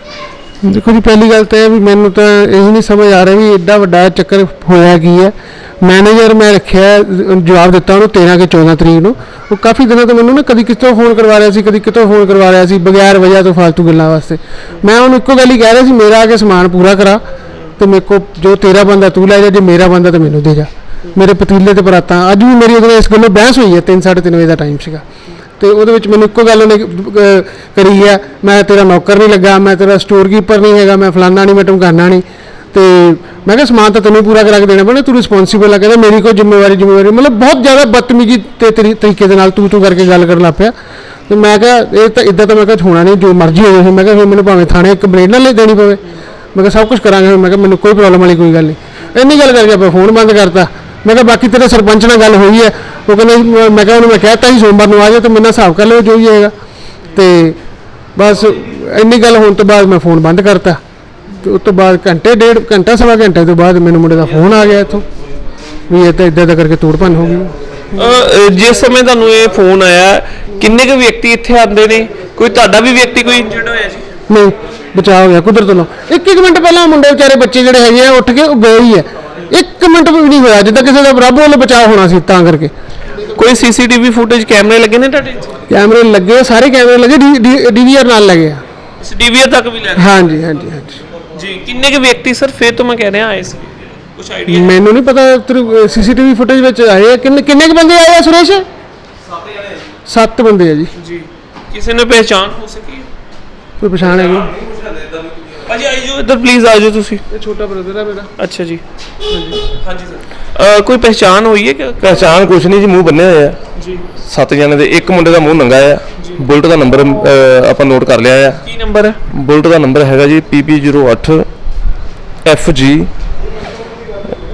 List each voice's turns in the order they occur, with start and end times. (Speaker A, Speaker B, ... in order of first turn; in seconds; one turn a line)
Speaker A: 0.6-17.2
Speaker A: 17.8-25.0
Speaker A: 25.6-40.7
Speaker A: 41.3-46.0
Speaker A: 46.5-56.5
Speaker A: 57.1-57.6
Speaker A: 58.1-60.8
Speaker A: 61.4-65.0
Speaker A: 65.9-67.5
Speaker B: 67.9-74.0
Speaker A: 74.3-82.7
Speaker B: 83.3-85.5
Speaker A: 85.7-88.6
Speaker B: 89.0-90.2
Speaker A: 90.0-91.0
Speaker B: 91.3-94.8
Speaker A: 94.5-98.6
Speaker A: 100.1-100.9
Speaker B: 101.0-103.0
Speaker A: 103.8-104.5
Speaker B: 105.6-107.2
Speaker A: 107.3-108.3
Speaker B: 108.4-108.8
Speaker B: 109.7-112.3
Speaker C: 112.0-113.6
Speaker B: 113.7-114.0
Speaker C: 114.2-118.6
Speaker B: 118.6-119.2
Speaker C: 119.3-121.5
Speaker C: 122.4-123.1